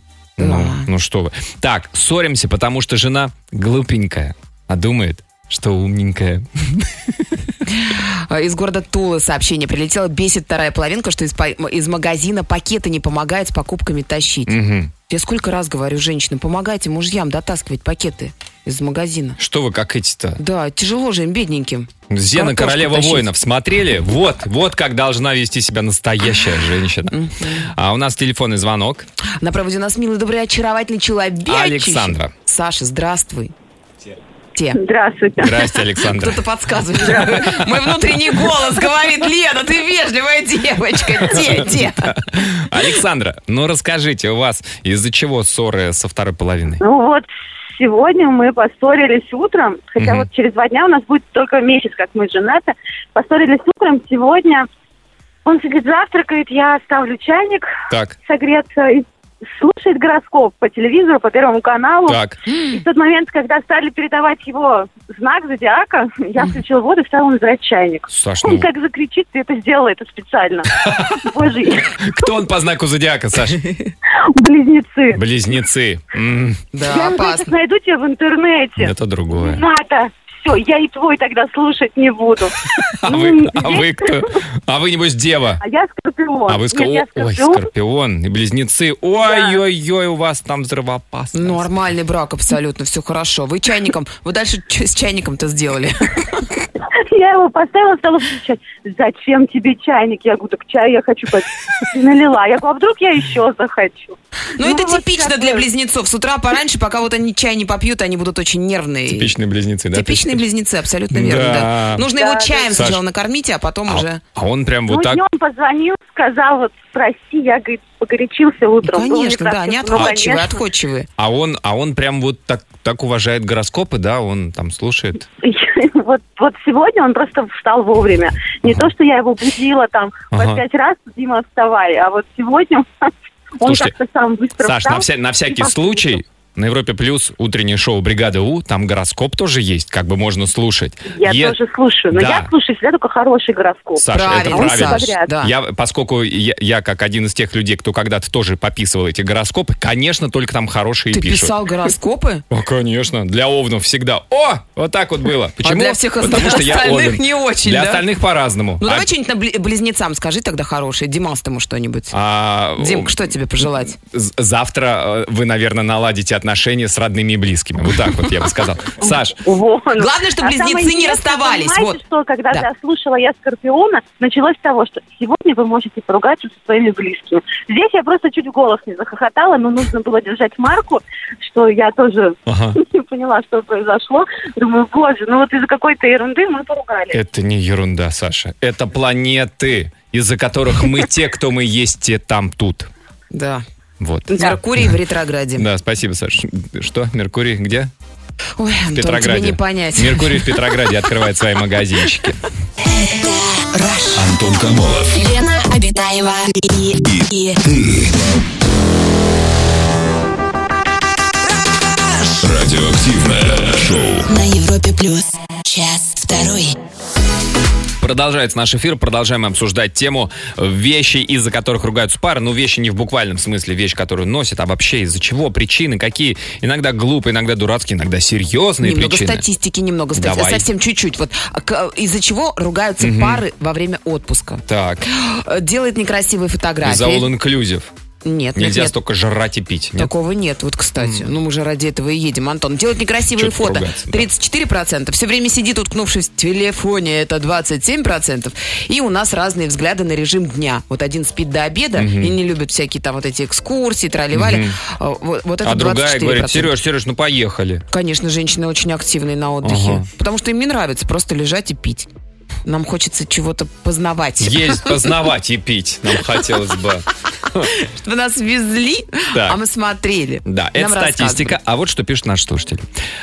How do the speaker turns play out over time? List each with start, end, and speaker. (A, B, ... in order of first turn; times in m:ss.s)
0:00.4-0:07.5 A
0:00.4-0:00.9 B
0:07.7-0:19.4 B
0:14.5-0:14.9 A
0:19.4-0:20.4 A
0:20.4-0:23.3 B
0:22.1-0:27.1 A
0:27.1-0:27.7 B
0:27.7-0:29.1 A
0:29.4-0:33.5 B
0:31.5-0:32.3 A
0:34.7-0:35.7 C
0:35.4-0:36.4 A
0:36.0-0:42.2 B
0:37.0-0:37.8 A
0:41.3-0:46.8 A
0:46.8-0:54.7 C
0:50.0-0:50.3 A
0:55.4-0:57.7 C
0:57.9-0:58.2 A
0:58.2-1:12.3 C
1:02.1-1:02.4 A
1:02.5-1:02.8 B
1:08.1-1:08.7 A
1:10.8-1:11.2 A
1:12.0-1:13.6 A
1:14.1-1:15.2 C
1:15.1-1:16.6 A
1:16.7-1:17.5 B
1:16.8-1:24.3 C
1:18.8-1:19.6 A
1:23.0-1:25.6 A
1:25.6-1:27.7 C
1:26.5-1:31.7 A
1:29.2-1:29.6 C
1:31.3-1:36.5 B
1:36.9-1:45.7 C
1:44.6-1:49.3 B
1:49.1-1:50.4 A
1:49.9-1:54.2 B
1:51.1-1:52.1 A
1:52.2-1:52.8 C
1:52.7-1:53.0 A
1:53.9-1:55.2 A
1:54.9-2:00.6 C
1:58.8-2:01.1 B
2:01.2-2:05.2 A
2:05.4-2:13.1 C
2:08.6-2:08.9 A
2:10.3-2:10.6 A
2:13.6-2:16.2 C
2:13.6-2:14.0 A
2:14.6-2:21.6 A
2:21.1-2:25.3 C
2:22.1-2:22.5 A
2:24.0-2:31.6 A
2:24.1-2:25.5 B
2:31.1-2:32.4 B
2:32.5-2:39.1 A
2:35.6-2:38.1 B
2:38.8-2:42.2 B
2:42.1-2:43.2 A
2:42.8-2:44.0 B
2:44.1-2:49.4 A
2:49.1-3:07.2 C
2:50.0-2:52.0 B
3:02.5-3:02.8 A
3:07.1-3:12.9 A
3:13.3-3:13.6 B
3:14.0-3:14.9 A
3:14.3-3:14.6 C
3:14.4-3:15.7 B
3:15.6-3:17.9 A
3:18.6-3:20.6 B
3:18.9-3:22.4 A
3:22.8-3:24.4 D
3:24.1-3:25.2 E
3:25.1-3:27.6 D
3:27.0-3:28.2 E
3:32.3-3:34.3 E
3:34.3-3:36.8 D
3:38.0-3:49.5 A
3:48.8-3:57.3 B
3:50.2-3:50.7 A
3:53.0-3:53.4 A
3:54.7-3:55.0 A
3:56.8-3:57.9 A
3:58.2-3:59.0 B
3:58.6-4:00.1 A
4:00.0-4:16.7 B
4:01.0-4:01.3 A
4:03.4-4:04.3 A
4:12.0-4:12.4 A
4:14.3-4:14.8 A
4:15.6-4:17.8 A
4:17.9-4:22.1 B
4:19.6-4:20.1 A
4:22.6-4:25.2 B
4:24.4-4:27.7 A
4:27.6-4:31.6 B
4:29.3-4:29.6 A
4:30.4-4:32.9 A